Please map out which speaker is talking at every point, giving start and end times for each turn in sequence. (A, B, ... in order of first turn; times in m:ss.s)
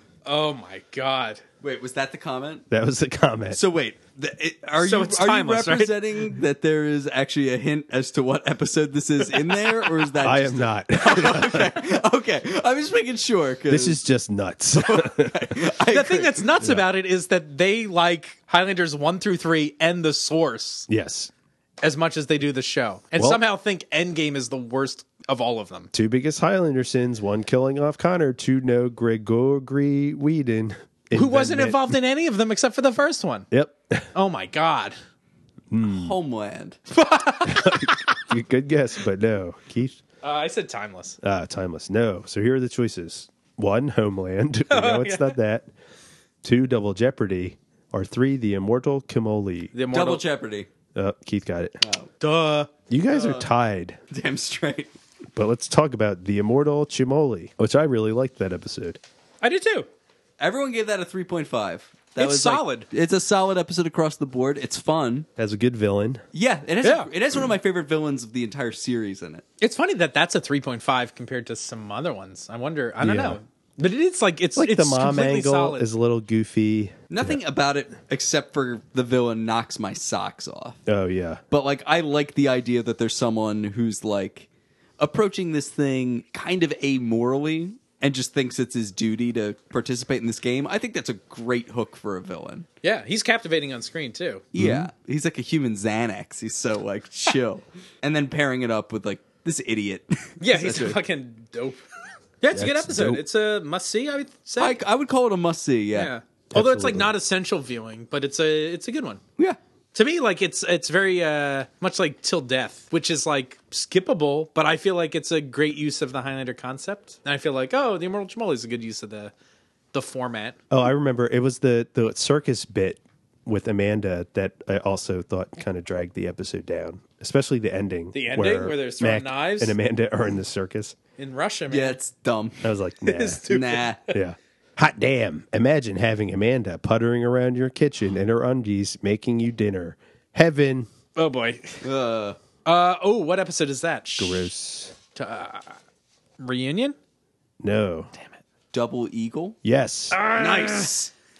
0:00.2-0:01.4 A
0:01.6-0:02.7 B
0:02.7-0:03.6 C
0:03.5-0:14.0 B
0:04.8-0:06.1 A
0:10.2-0:11.8 C
0:13.7-0:15.5 C
0:14.7-0:16.5 B
0:15.9-0:20.9 A
0:20.9-0:21.3 C
0:21.8-0:25.9 A
0:25.9-0:32.0 C
0:31.1-0:33.5 A
0:33.5-0:34.1 C
0:34.1-0:35.0 A
0:35.7-0:36.1 C
0:35.8-0:36.8 B
0:36.9-0:38.2 A
0:37.4-0:40.0 C
0:40.2-0:41.2 A
0:41.2-0:45.7 C
0:44.7-0:45.4 A
0:46.4-0:49.7 C
0:49.7-0:50.2 A
0:49.9-0:50.7 B
0:50.9-0:51.8 C
0:51.8-0:52.1 B
0:52.2-0:52.7 A
0:52.9-0:54.0 C
0:53.1-0:53.5 B
0:54.1-0:54.9 B
0:55.3-0:59.0 C
0:59.4-0:59.9 A
1:00.4-1:05.3 B
1:02.2-1:02.9 A
1:05.4-1:06.2 C
1:06.3-1:09.4 B
1:06.8-1:07.1 A
1:09.6-1:15.8 A
1:13.0-1:13.4 C
1:14.6-1:17.4 C
1:17.1-1:20.8 B
1:20.9-1:21.4 C
1:21.5-1:24.5 B
1:25.0-1:32.7 B
1:32.8-1:34.4 A
1:34.5-1:41.0 B
1:34.6-1:34.9 C
1:40.4-1:41.8 A
1:42.4-1:44.8 A
1:42.5-1:43.2 C
1:44.6-1:46.1 B
1:45.9-1:49.2 A
1:46.5-1:47.1 C
1:49.9-1:59.3 A
1:59.9-2:00.6 A
2:00.7-2:11.0 C
2:08.1-2:09.8 A
2:11.2-2:12.0 A
2:11.7-2:12.6 B
2:12.6-2:13.4 C
2:13.0-2:14.1 A
2:13.5-2:14.0 B
2:14.1-2:20.9 C
2:21.2-2:21.8 A
2:21.8-2:22.4 B
2:22.6-2:24.5 A
2:24.2-2:24.9 C
2:25.1-2:25.8 A
2:26.4-2:27.0 A
2:27.6-2:28.1 C
2:28.7-2:29.6 B
2:29.6-2:30.2 C
2:30.1-2:30.9 A
2:30.3-2:31.1 B